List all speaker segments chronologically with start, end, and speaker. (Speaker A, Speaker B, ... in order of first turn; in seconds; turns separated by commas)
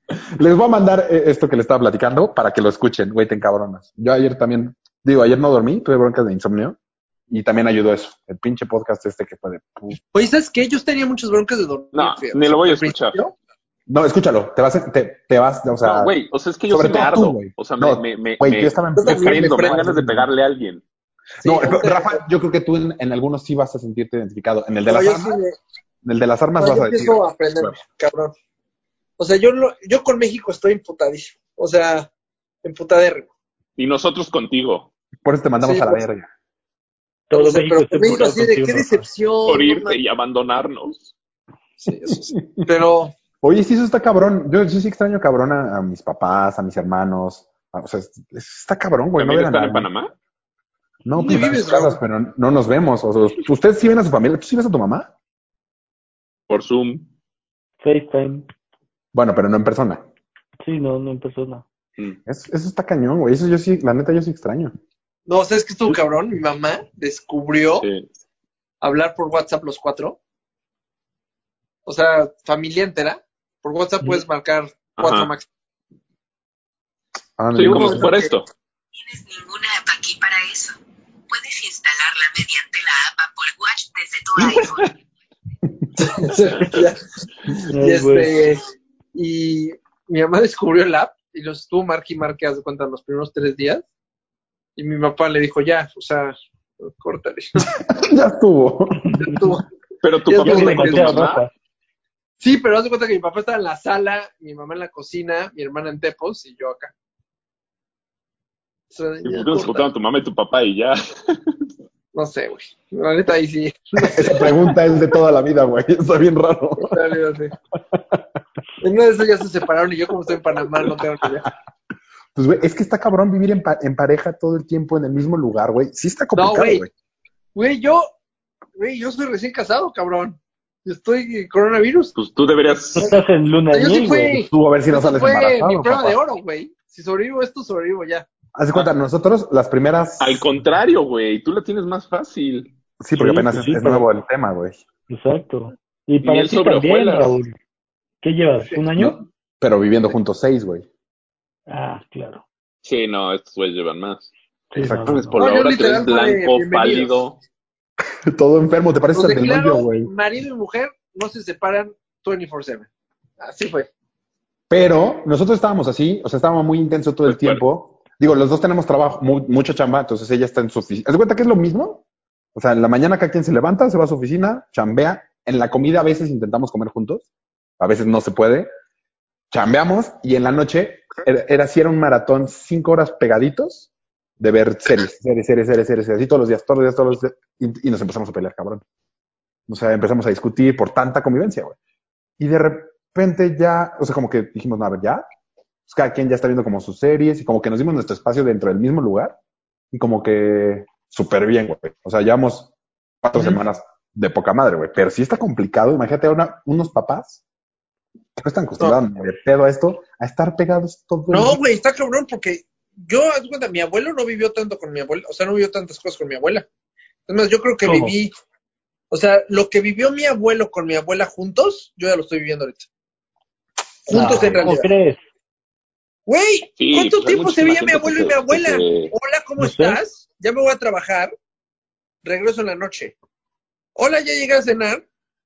Speaker A: 0.3-6.8, Speaker A: 7.3-10.0, Speaker B: 10.1-13.3, Speaker C: 11.9-13.2, Speaker A: 13.9-16.1, Speaker C: 15.8-20.8, Speaker A: 16.7-20.3, Speaker B: 18.9-19.8, Speaker B: 21.4-22.2, Speaker A: 21.4-25.4, Speaker B: 24.9-25.5, Speaker A: 26.0-27.7, Speaker B: 26.6-28.3, Speaker B: 29.2-32.1, Speaker B: 32.6-33.3, Speaker C: 33.8-34.9, Speaker A: 35.2-36.3, Speaker B: 35.6-36.0, Speaker D: 37.3-39.0, Speaker B: 37.3-40.0, Speaker C: 39.4-41.1, Speaker B: 41.8-43.1, Speaker A: 42.3-42.6, Speaker A: 43.4-49.9, Speaker C: 49.1-50.1, Speaker A: 51.0-55.1, Speaker B: 51.1-52.0, Speaker C: 56.5-57.1, Speaker D: 57.8-58.5, Speaker A: 59.1-60.0, Speaker D: 60.6-61.6, Speaker A: 62.2-64.7, Speaker B: 65.3-67.9, Speaker C: 67.8-68.1, Speaker B: 68.8-70.2, Speaker B: 71.8-75.5, Speaker C: 75.0-75.3, Speaker A: 77.4-78.1, Speaker B: 77.5-78.3, Speaker C: 77.5-78.5, Speaker E: 78.9-80.8, Speaker E: 81.3-84.9, Speaker C: 84.4-84.9, Speaker B: 86.0-87.0, Speaker C: 86.4-86.8, Speaker D: 87.7-88.4, Speaker B: 87.7-93.8, Speaker B: 94.8-97.7, Speaker A: 97.8-99.1, Speaker D: 99.0-99.5, Speaker B: 99.2-99.7, Speaker C: 100.0-101.4, Speaker B: 100.2-101.4, Speaker D: 100.4-101.5, Speaker B: 102.4-106.9, Speaker B: 108.9-109.9, Speaker C: 109.2-111.5, Speaker B: 112.1-114.7, Speaker A: 114.0-117.0, Speaker B: 116.8-117.5, Speaker A: 117.9-118.2, Speaker B: 118.8-121.5, Speaker A: 122.3-126.9, Speaker B: 126.3-126.8, Speaker B: 127.5-128.1, Speaker B: 128.8-132.1, Speaker C: 132.1-133.1, Speaker D: 132.9-134.4, Speaker B: 133.7-138.3, Speaker A: 134.4-136.2, Speaker A: 138.5-140.4, Speaker C: 140.2-142.7, Speaker A: 143.0-144.8, Speaker D: 143.1-144.1, Speaker D: 145.1-147.6, Speaker C: 146.2-147.4, Speaker D: 148.2-149.2, Speaker A: 148.9-150.9, Speaker D: 151.7-152.4, Speaker C: 152.8-154.3, Speaker D: 154.7-155.4, Speaker A: 154.7-155.3, Speaker C: 155.2-157.4, Speaker B: 155.4-157.2, Speaker A: 158.3-160.1, Speaker B: 159.1-162.9, Speaker B: 163.4-163.9, Speaker A: 164.7-172.0, Speaker C: 167.2-167.6, Speaker A: 172.5-177.3, Speaker A: 177.8-178.7, Speaker A: 179.5-188.8, Speaker A: 189.7-191.8, Speaker A: 192.4-195.2, Speaker A: 195.9-199.4, Speaker A: 199.9-202.7, Speaker A: 203.2-207.4, Speaker A: 208.4-211.6, Speaker B: 211.3-216.6, Speaker B: 217.3-218.3, Speaker D: 217.8-218.1, Speaker B: 219.1-222.9, Speaker B: 224.1-224.9, Speaker D: 224.1-225.2, Speaker B: 226.3-231.3, Speaker C: 226.8-229.1, Speaker D: 229.6-230.0, Speaker B: 232.2-233.1, Speaker B: 233.9-235.0